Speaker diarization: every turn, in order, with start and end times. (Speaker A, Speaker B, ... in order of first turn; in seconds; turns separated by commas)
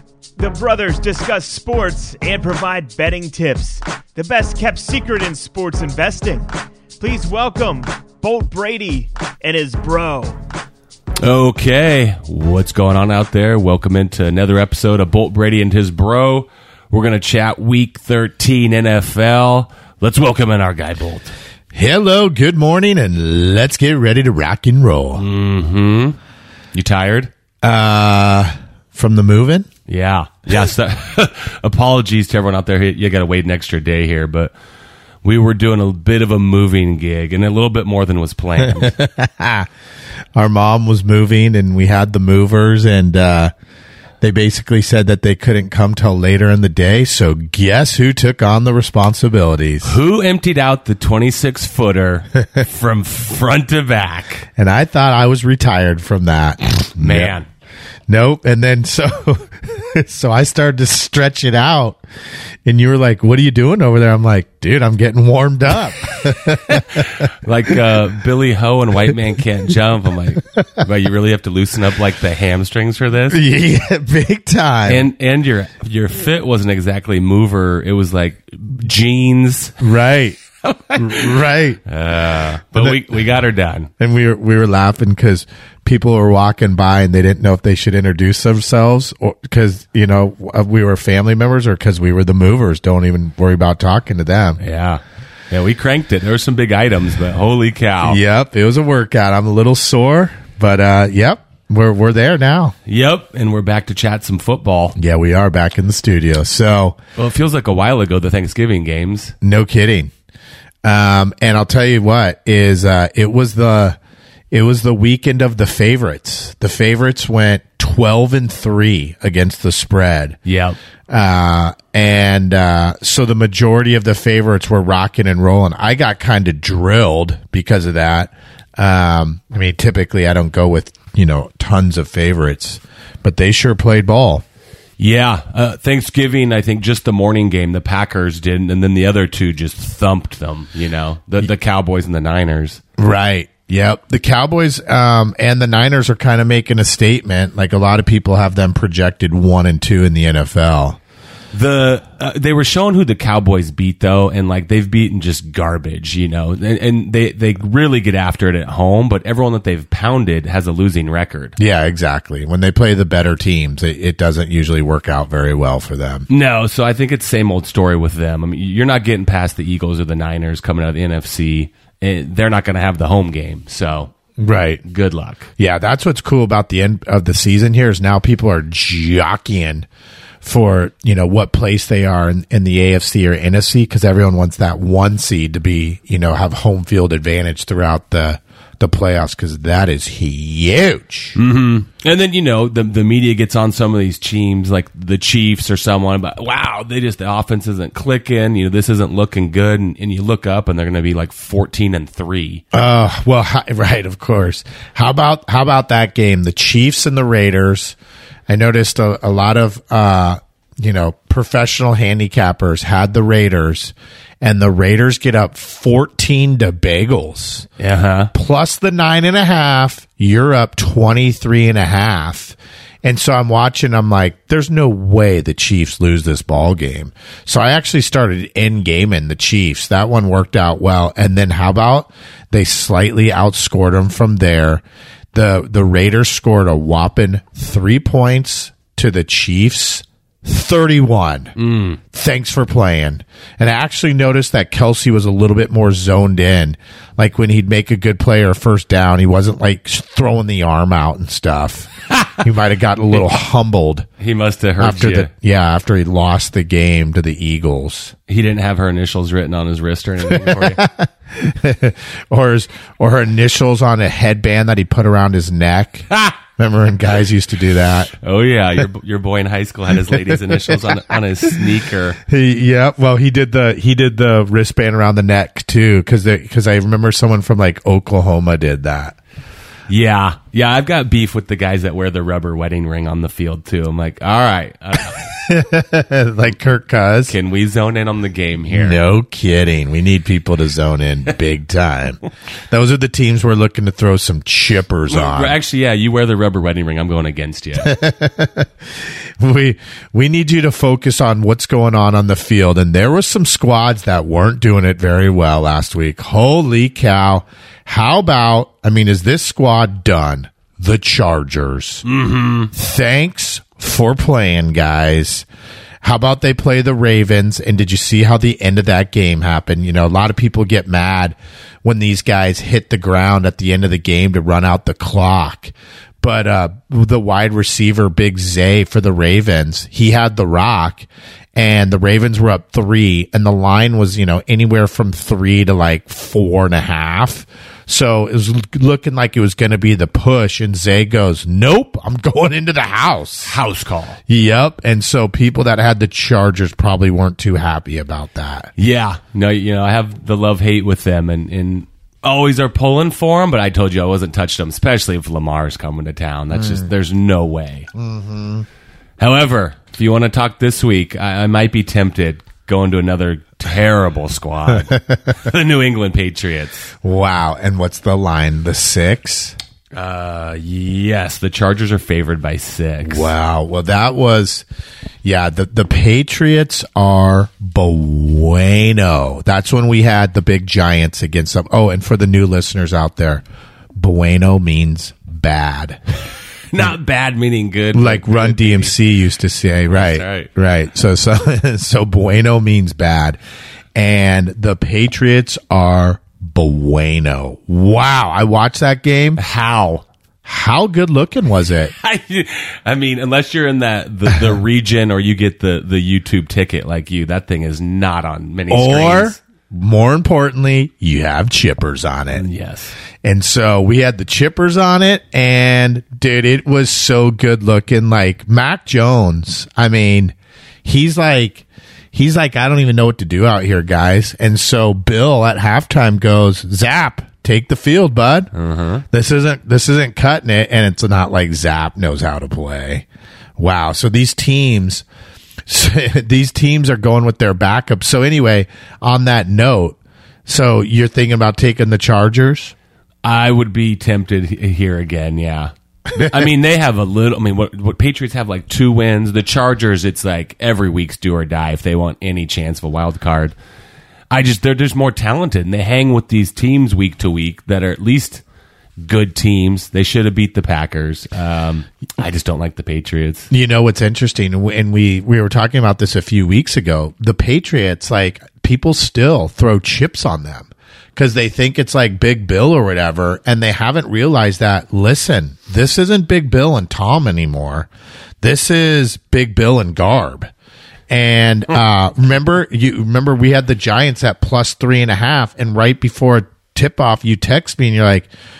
Speaker A: 0.4-6.5, Speaker A: 7.0-10.4, Speaker B: 11.2-21.3, Speaker C: 21.7-25.2, Speaker B: 25.2-26.2, Speaker B: 26.7-27.3, Speaker C: 27.6-29.7, Speaker B: 29.9-34.5, Speaker B: 35.2-39.0, Speaker C: 38.6-39.7, Speaker C: 40.4-43.5, Speaker C: 44.2-50.0, Speaker B: 49.8-54.5, Speaker C: 54.6-57.3, Speaker B: 57.0-57.5, Speaker C: 58.1-62.0, Speaker C: 62.6-67.3, Speaker B: 66.7-73.4, Speaker C: 73.3-75.1, Speaker B: 74.9-79.8, Speaker C: 79.8-80.4, Speaker B: 80.7-83.9, Speaker C: 81.0-81.8, Speaker C: 82.8-83.0, Speaker C: 84.0-94.6, Speaker B: 94.6-98.2, Speaker C: 98.1-102.8, Speaker B: 102.9-105.0, Speaker C: 105.0-107.0, Speaker B: 107.2-109.3, Speaker C: 109.4-110.1, Speaker C: 110.8-114.0, Speaker C: 114.5-120.4, Speaker B: 120.5-120.8, Speaker C: 121.1-134.4, Speaker B: 135.0-142.8, Speaker C: 143.0-151.0, Speaker B: 151.5-161.6, Speaker C: 161.6-166.3, Speaker B: 166.3-174.1, Speaker C: 174.4-174.8, Speaker B: 174.8-175.5, Speaker C: 175.6-179.9, Speaker C: 180.4-191.4, Speaker B: 191.4-202.6, Speaker C: 202.7-208.0, Speaker C: 208.5-217.7, Speaker B: 217.8-218.3, Speaker C: 218.3-234.8, Speaker C: 235.3-241.5, Speaker B: 241.6-242.0, Speaker C: 242.1-254.1, Speaker B: 254.2-255.3, Speaker C: 254.8-258.1, Speaker B: 258.3-260.8, Speaker C: 260.3-268.1, Speaker B: 268.2-272.2, Speaker C: 270.1-270.8, Speaker C: 272.3-279.2, Speaker B: 279.9-285.3, Speaker C: 285.4-287.3, Speaker B: 287.3-289.0, Speaker C: 288.7-295.6, Speaker B: 295.1-297.9, Speaker C: 297.8-312.0, Speaker B: 312.0-312.7, Speaker C: 312.7-315.5, Speaker C: 316.0-343.6, Speaker B: 343.5-344.2, Speaker C: 344.3-348.7, Speaker B: 348.8-357.9, Speaker C: 356.6-356.9, Speaker C: 357.9-358.7, Speaker B: 359.2-366.9, Speaker C: 364.8-365.3, Speaker C: 367.0-369.6, Speaker B: 369.9-373.3, Speaker C: 373.0-374.6, Speaker C: 375.2-383.4, Speaker C: 384.0-386.0, Speaker B: 386.7-388.9, Speaker C: 387.9-393.4, Speaker B: 389.9-390.5, Speaker C: 393.9-399.4, Speaker B: 399.4-400.1, Speaker C: 400.4-401.9, Speaker B: 402.0-409.4, Speaker C: 408.7-412.4, Speaker B: 412.3-413.0, Speaker C: 413.2-428.5, Speaker B: 428.5-429.0, Speaker C: 429.1-433.1, Speaker C: 433.6-435.1, Speaker C: 435.7-442.7, Speaker B: 443.2-453.6, Speaker B: 454.3-458.4, Speaker B: 459.0-463.5, Speaker C: 463.5-477.9, Speaker C: 478.4-480.5, Speaker C: 481.1-488.3